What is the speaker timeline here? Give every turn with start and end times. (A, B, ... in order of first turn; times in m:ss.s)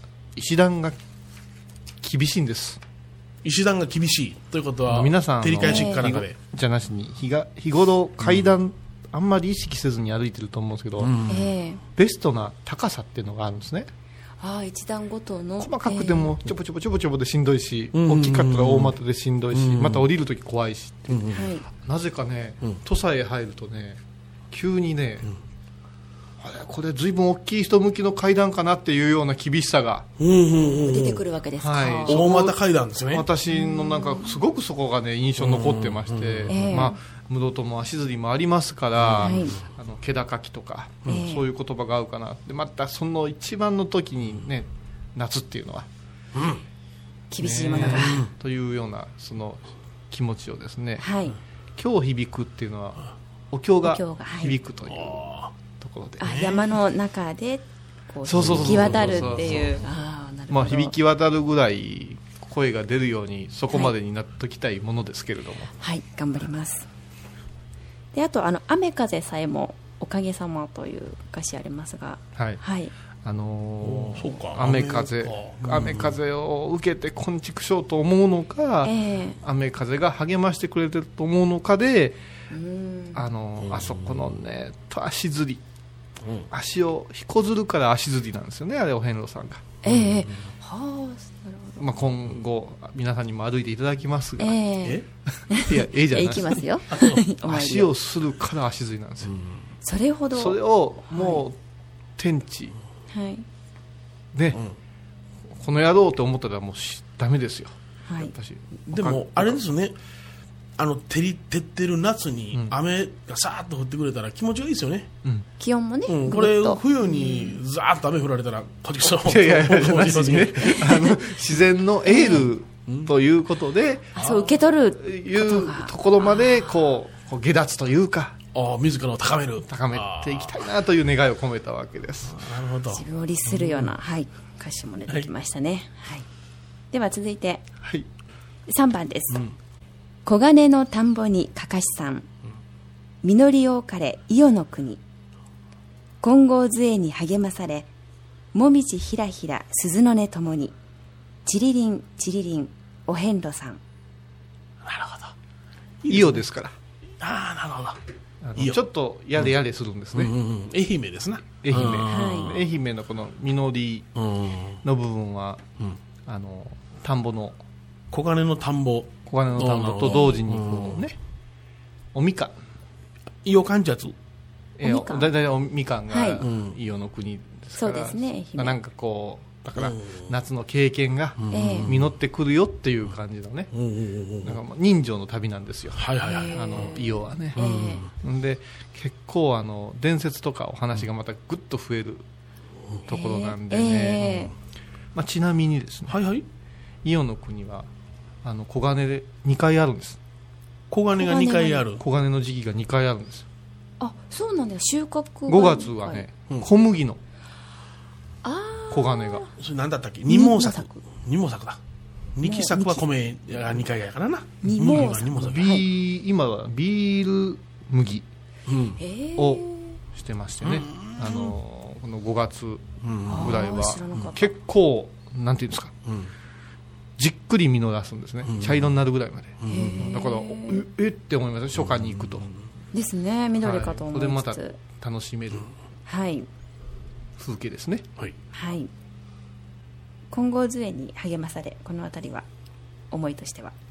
0:00.4-0:01.0 A
0:02.0-0:02.8 A
0:03.4-0:06.4 B
0:04.9-0:11.1 A
0:05.6-0:06.1 C
0:11.0-0:11.5 B
0:11.3-0:11.8 C
0:12.0-0:13.9 A
0:14.4-0:16.3 C
0:15.6-0:24.0 A
0:17.9-0:19.0 B
0:19.5-0:20.1 B
0:21.1-0:21.5 B
0:21.3-0:21.7 C
0:24.5-0:25.3 A
0:26.4-0:30.1 A
0:30.2-0:31.2 B
0:30.8-0:32.2 C
0:31.6-0:32.6 A
0:32.0-0:33.3 B
0:33.1-0:45.9 A
0:33.5-0:34.4 C
0:35.4-0:36.9 B
0:36.5-0:37.0 C
0:39.0-0:39.6 B
0:39.2-0:39.6 C
0:41.1-0:41.5 C
0:46.4-0:46.6 B
0:47.3-0:48.2 C
0:47.4-0:51.1 A
0:47.8-0:48.3 B
0:51.0-0:51.4 C
0:51.8-0:56.4 A
0:53.8-0:54.6 C
0:54.9-0:55.5 B
0:56.2-1:01.0 C
0:56.2-0:56.7 B
0:58.2-0:59.8 A
0:58.4-0:59.7 B
1:00.5-1:05.7 A
1:05.8-1:06.9 C
1:08.1-1:12.9 C
1:12.4-1:12.6 A
1:13.2-1:22.2 A
1:13.8-1:16.2 B
1:18.8-1:19.4 C
1:22.5-1:23.2 C
1:23.1-1:25.6 A
1:23.7-1:24.3 B
1:26.2-1:26.5 B
1:26.5-1:29.8 A
1:29.8-1:31.8 C
1:29.8-1:30.4 B
1:31.8-1:34.6 A
1:34.4-1:37.9 C
1:35.5-1:36.6 A
1:36.9-1:37.2 B
1:37.4-1:39.3 A
1:39.3-1:39.6 B
1:39.8-1:41.4 C
1:40.3-1:41.6 A
1:42.2-1:42.8 A
1:43.1-1:43.5 C
1:44.3-1:44.6 A
1:45.5-1:49.6 A
1:48.1-1:48.3 C
1:48.9-1:50.0 B
1:50.8-1:55.1 B
1:55.6-1:57.6 C
1:56.1-2:01.0 B
1:59.1-2:04.2 A
2:02.0-2:02.5 C
2:04.2-2:06.9 C
2:04.2-2:04.5 B
2:05.0-2:08.4 A
2:08.5-2:10.6 B
2:09.6-2:12.4 A
2:12.3-2:14.0 B
2:12.9-2:16.3 C
2:16.9-2:17.6 C
2:17.8-2:18.1 A
2:18.7-2:19.4 C
2:20.2-2:22.3 C
2:23.2-2:25.0 C
2:26.2-2:27.9 C
2:28.5-2:30.8 C
2:31.4-2:33.8 C
2:34.8-2:35.3 B
2:36.0-2:36.4 B
2:36.0-2:36.7 A
2:37.2-2:38.0 B
2:38.4-2:40.3 A
2:38.6-2:38.8 B
2:40.1-2:42.6 B
2:41.6-2:44.1 A
2:42.0-2:42.6 C
2:44.2-2:44.8 B
2:44.8-2:45.6 A
2:46.3-2:47.6 A
2:48.1-2:51.1 B
2:49.3-2:51.2 A
2:50.1-2:50.4 C
2:52.1-2:52.6 A
2:53.4-2:54.2 B
2:54.8-3:03.7 A
2:54.8-2:55.3 C
2:56.1-2:56.4 C
2:56.4-2:56.8 B
2:57.8-2:58.8 C
2:59.8-3:00.3 B
3:01.4-3:02.1 B
3:01.5-3:01.9 C
3:03.7-3:04.6 B
3:04.4-3:12.2 A
3:05.9-3:06.8 B
3:06.2-3:08.1 C
3:07.6-3:08.1 B
3:13.1-3:14.5 A
3:13.1-3:14.5 C
3:15.2-3:16.2 A
3:16.1-3:16.4 B
3:17.0-3:17.9 A
3:18.4-3:20.2 A
3:20.9-3:22.0 B
3:21.2-3:21.8 C
3:21.9-3:23.5 A
3:24.0-3:26.3 C
3:25.5-3:27.2 A
3:28.4-3:29.5 C
3:28.9-3:29.4 A
3:29.6-3:31.8 B
3:30.3-3:31.0 C
3:32.4-3:35.8 B
3:32.4-3:33.0 C
3:34.6-3:35.9 C
3:34.9-3:38.2 A
3:38.7-3:39.0 B
3:39.0-3:40.0 C
3:39.4-3:45.9 A
3:40.6-3:41.5 B
3:43.0-3:43.6 B
3:43.3-3:44.5 C
3:46.1-3:46.3 B
3:47.2-3:52.5 A
3:48.4-3:49.0 B
3:49.6-3:50.1 B
3:49.7-3:50.8 C
3:51.9-3:52.5 B
3:52.9-3:54.8 C
3:53.6-3:55.7 A
3:56.1-3:56.5 C
3:57.4-3:58.1 A
3:58.5-3:58.9 C
4:00.3-4:02.5 C
4:03.1-4:03.7 C